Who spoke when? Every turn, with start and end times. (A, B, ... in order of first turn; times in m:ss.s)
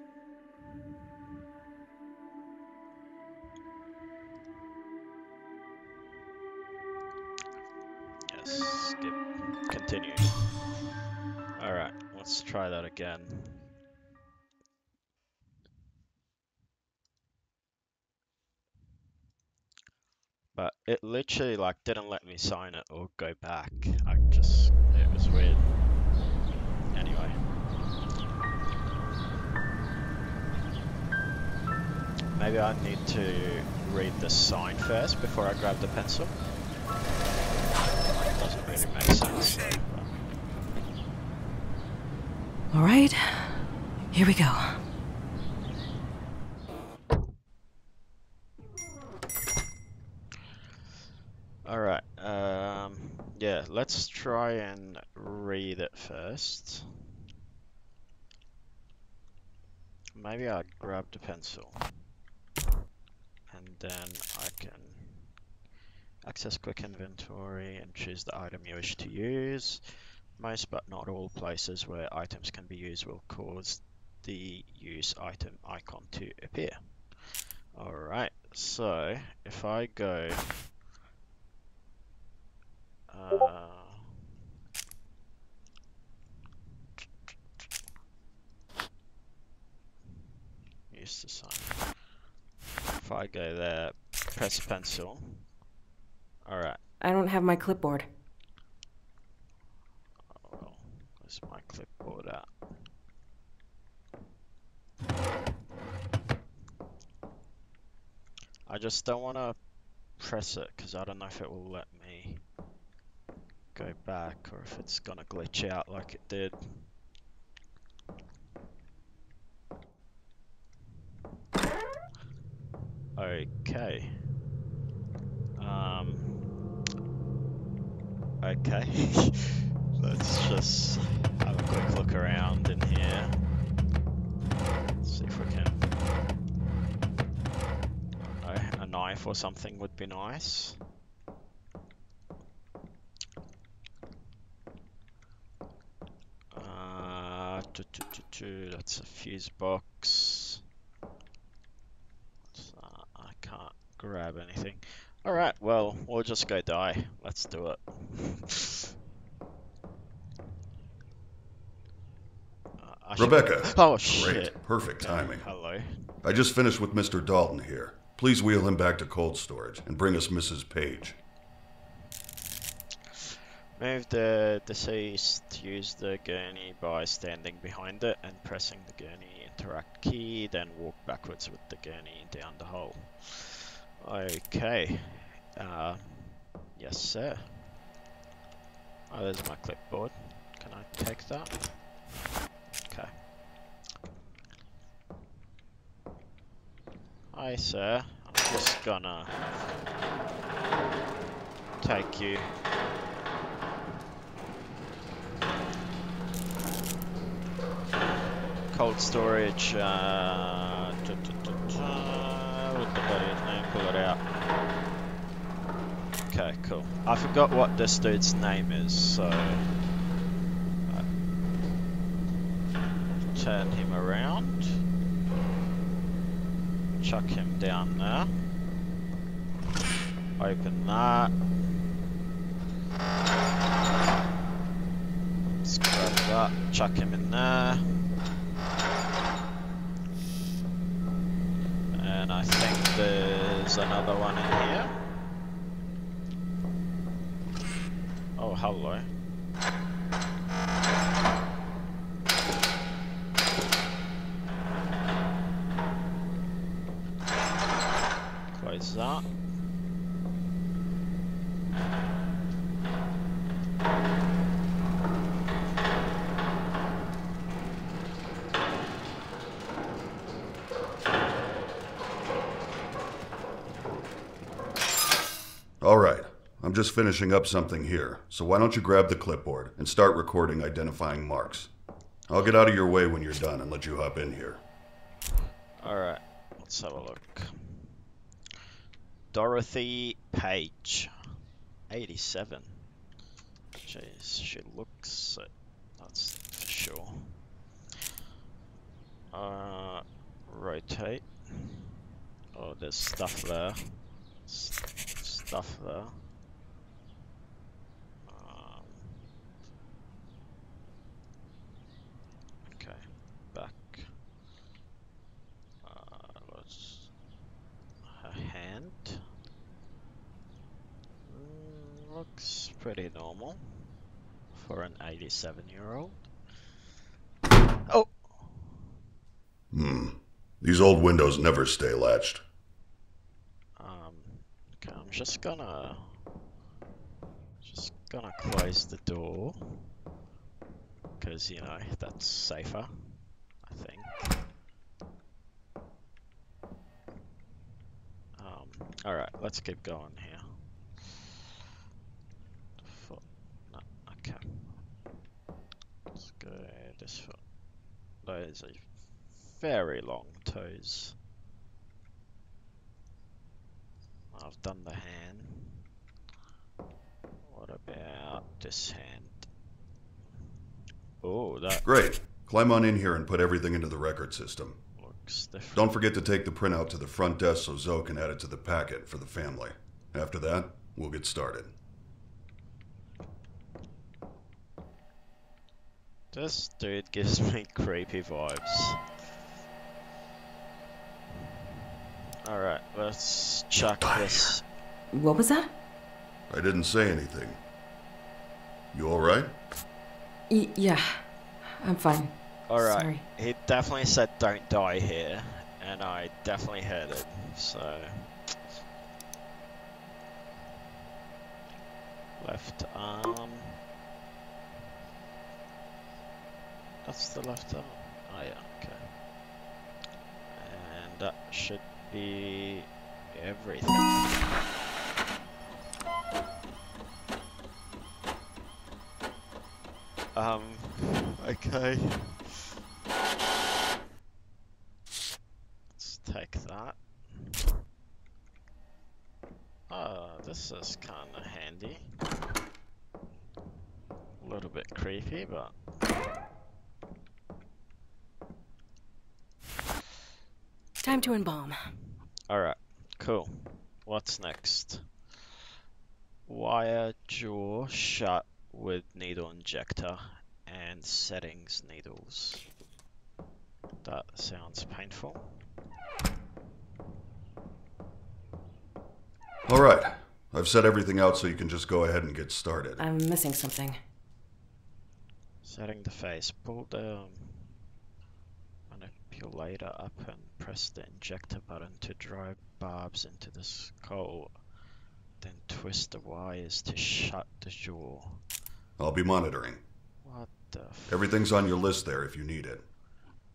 0:08.3-0:10.3 A
0:11.6-0:13.7 A
0:20.6-0:25.7 A
0:26.9-0:27.4 A
0:32.3-0:36.4 A
0:38.1-0:40.2 A
0:42.7-0:43.6 B
0:44.1-0:44.8 B
0:51.6-0:56.9 A
1:00.2-1:02.0 A
1:03.5-1:05.3 A
1:06.2-1:09.8 A
1:10.4-1:16.8 A
1:17.8-1:20.7 A
1:23.1-1:24.2 A
1:30.9-1:31.8 A
1:33.0-1:35.5 A
1:36.5-1:36.8 A
1:37.0-1:38.1 B
1:40.3-1:42.5 A
1:48.7-1:49.6 A
1:50.2-1:52.4 A
1:53.8-1:56.9 A
2:03.2-2:04.2 A
2:05.6-2:06.6 A
2:08.4-2:13.4 A
2:15.0-2:15.9 A
2:18.4-2:20.8 A
2:26.5-2:30.6 A
2:32.5-2:38.9 A
2:42.8-2:46.1 A
2:43.2-2:45.5 C
2:46.2-2:51.2 C
2:53.8-3:07.5 A
3:09.1-3:11.6 A
3:12.1-3:13.1 A
3:17.3-3:19.5 A
3:21.8-3:22.5 A
3:28.7-3:34.2 A
3:36.3-3:39.7 A
3:43.3-3:44.8 A
3:47.0-3:48.4 A
3:50.4-3:51.4 A
3:55.6-3:58.1 A
4:01.9-4:05.1 A
4:08.4-4:09.1 A
4:18.5-4:19.3 A
4:35.8-4:41.7 C
4:42.3-4:44.6 C
4:45.8-4:47.8 A
4:49.3-4:51.1 A
4:51.9-4:52.9 A
4:53.8-4:57.4 A
4:59.3-5:01.8 A
5:02.5-5:04.0 A
5:04.5-5:06.2 A
5:08.2-5:09.2 A
5:12.6-5:14.1 A
5:15.8-5:17.1 A
5:18.1-5:19.2 A
5:21.2-5:23.9 A
5:24.5-5:26.2 A
5:27.9-5:28.8 A
5:29.7-5:32.4 C
5:33.8-5:36.2 A
5:37.6-5:39.9 A
5:41.2-5:44.4 A
5:48.4-5:50.6 A
5:52.8-5:54.8 A
5:56.2-5:57.4 A
5:58.2-5:58.8 A
5:59.5-6:01.2 A
6:04.3-6:05.8 A
6:07.5-6:09.5 A
6:11.2-6:11.8 A
6:11.8-6:14.8 C
6:15.0-6:16.0 A
6:15.8-6:21.7 C
6:26.3-6:29.0 A
6:32.4-6:34.6 A
6:35.1-6:35.7 B
6:36.5-6:37.6 C
6:38.9-6:39.5 C
6:40.5-6:41.2 B
6:41.8-6:43.2 B
6:42.7-6:48.3 A
6:52.4-6:53.8 A
6:57.0-6:59.0 A
7:00.6-7:04.4 A
7:10.3-7:12.6 A
7:16.0-7:17.5 A
7:19.9-7:22.1 A
7:24.4-7:25.7 A
7:31.0-7:31.8 B
7:31.1-7:31.6 A
7:32.5-7:35.1 A
7:36.5-7:42.6 A
7:44.0-7:45.5 A
7:49.7-7:53.0 C
7:53.0-7:54.0 B
7:55.6-7:57.7 A
7:58.9-8:04.5 A
8:05.4-8:08.4 A
8:09.0-8:09.8 C
8:10.2-8:11.3 A
8:11.1-8:12.8 C